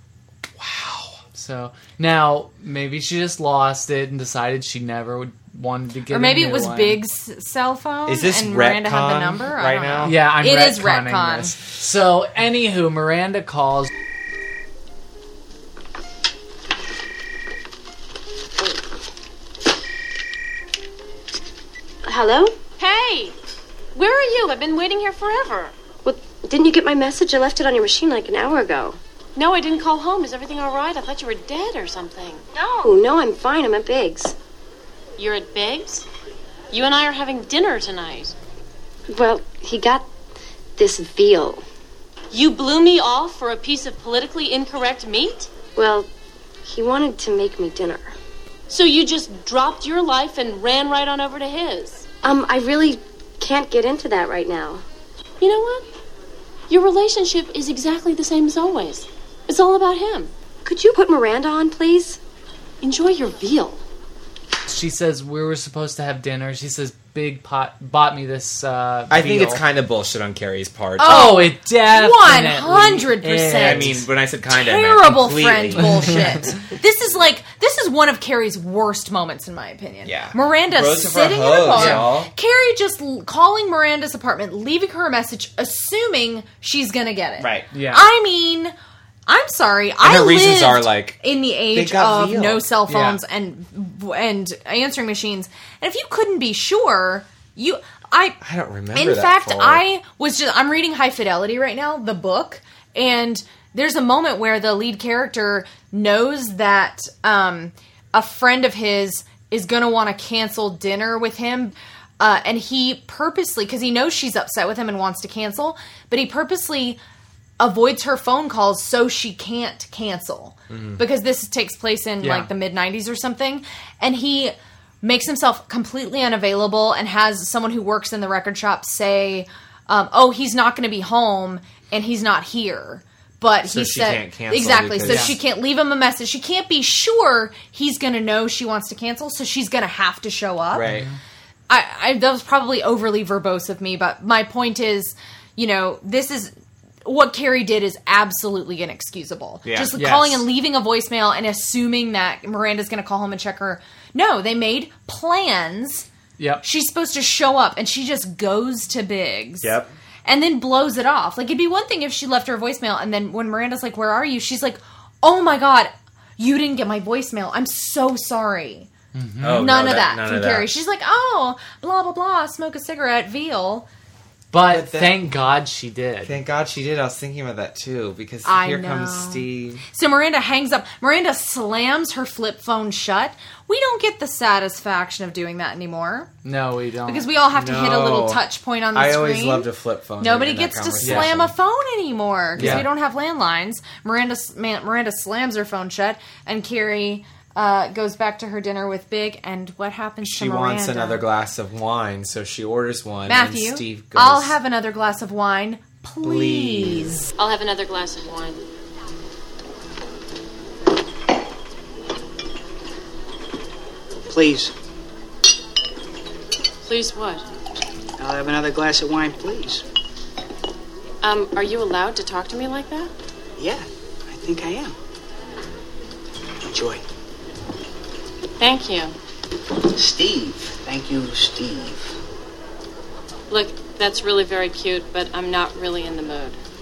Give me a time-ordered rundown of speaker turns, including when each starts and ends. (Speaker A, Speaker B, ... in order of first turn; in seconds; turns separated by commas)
Speaker A: 0.6-1.2, Speaker B: 1.3-7.0, Speaker C: 6.1-11.6, Speaker A: 8.1-10.2, Speaker B: 10.0-13.9, Speaker D: 22.1-22.6, Speaker E: 22.8-23.4, Speaker E: 23.9-25.8, Speaker D: 26.0-29.0, Speaker E: 29.4-32.4, Speaker D: 32.5-34.4, Speaker E: 35.2-36.1, Speaker E: 36.7-38.4, Speaker D: 39.1-40.1, Speaker D: 40.8-41.6, Speaker E: 42.3-45.5, Speaker D: 45.7-46.1, Speaker D: 46.6-48.1, Speaker E: 48.7-52.1, Speaker D: 52.2-54.8, Speaker E: 55.4-55.9, Speaker E: 56.7-60.3, Speaker D: 60.6-62.2, Speaker E: 62.8-63.8, Speaker B: 64.7-69.6, Speaker A: 69.1-71.4, Speaker C: 71.0-88.7, Speaker B: 71.0-74.1, Speaker A: 73.5-76.5, Speaker A: 80.0-82.3, Speaker B: 81.8-82.1, Speaker A: 87.4-87.7, Speaker B: 87.7-88.0, Speaker C: 89.3-98.4, Speaker A: 90.0-91.2, Speaker A: 91.7-92.7, Speaker B: 92.9-93.2, Speaker A: 98.4-99.8, Speaker C: 99.0-117.0, Speaker C: 117.6-140.9, Speaker A: 120.7-121.0, Speaker B: 122.2-122.5, Speaker A: 133.6-135.4, Speaker B: 135.1-135.3, Speaker A: 140.7-141.1, Speaker B: 140.8-141.2, Speaker C: 141.7-146.5, Speaker C: 147.0-156.1, Speaker A: 149.7-149.9, Speaker B: 150.0-150.5, Speaker B: 156.4-156.6, Speaker C: 156.6-159.7, Speaker A: 159.6-159.9, Speaker C: 160.2-168.9, Speaker B: 169.1-169.7, Speaker A: 169.4-170.7, Speaker C: 169.6-173.9, Speaker B: 174.5-176.4, Speaker A: 174.7-175.3, Speaker A: 176.2-179.8, Speaker C: 178.4-186.3, Speaker B: 186.4-187.3, Speaker C: 187.1-189.7, Speaker A: 187.5-188.4, Speaker A: 188.9-191.5, Speaker C: 190.2-201.2, Speaker B: 191.0-191.3, Speaker A: 192.6-192.9, Speaker B: 192.6-192.9, Speaker A: 200.2-204.6, Speaker C: 203.3-207.3, Speaker A: 206.2-207.2, Speaker E: 207.4-208.6, Speaker F: 214.3-214.7, Speaker E: 216.8-217.4, Speaker F: 218.2-219.8, Speaker E: 221.2-223.1, Speaker F: 223.6-224.9, Speaker F: 226.6-227.0, Speaker E: 228.6-229.1, Speaker F: 229.9-232.2, Speaker E: 233.5-236.6